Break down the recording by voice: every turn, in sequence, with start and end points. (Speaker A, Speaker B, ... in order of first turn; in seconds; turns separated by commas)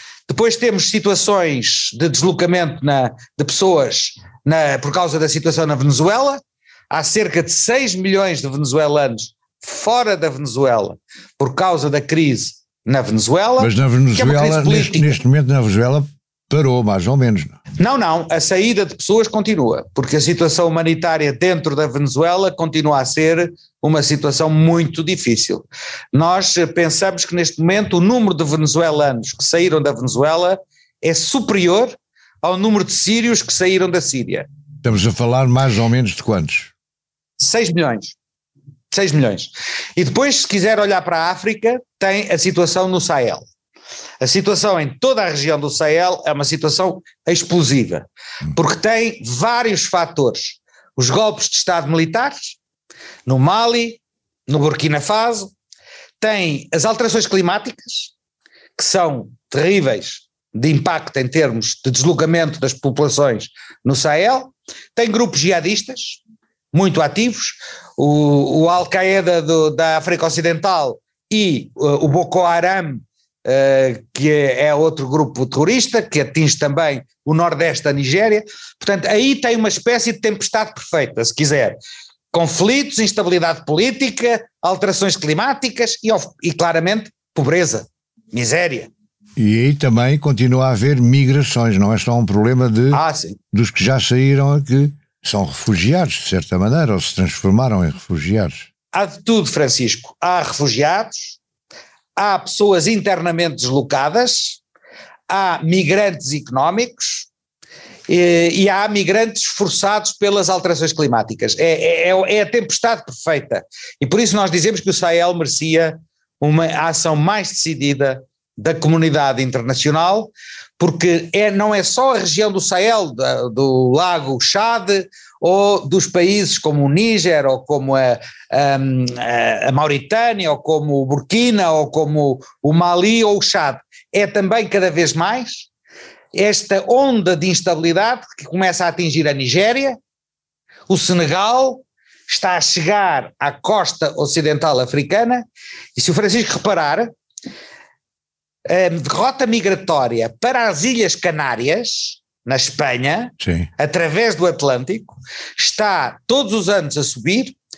Speaker A: 0.3-15.2, Speaker B: 13.6-17.6, Speaker A: 17.8-34.5, Speaker B: 34.8-36.7, Speaker A: 37.4-38.1, Speaker A: 38.9-43.5, Speaker A: 44.2-52.5, Speaker A: 53.2-55.5, Speaker A: 56.2-58.1, Speaker A: 58.8-66.2, Speaker A: 66.7-81.8, Speaker A: 82.3-88.9, Speaker B: 89.4-98.7, Speaker A: 92.9-93.4, Speaker A: 98.9-101.4, Speaker A: 102.2-104.6, Speaker A: 105.3-107.3, Speaker A: 108.1-135.7, Speaker A: 136.3-140.0, Speaker A: 140.9-145.4, Speaker A: 145.9-147.1, Speaker A: 148.7-157.6, Speaker B: 153.4-153.7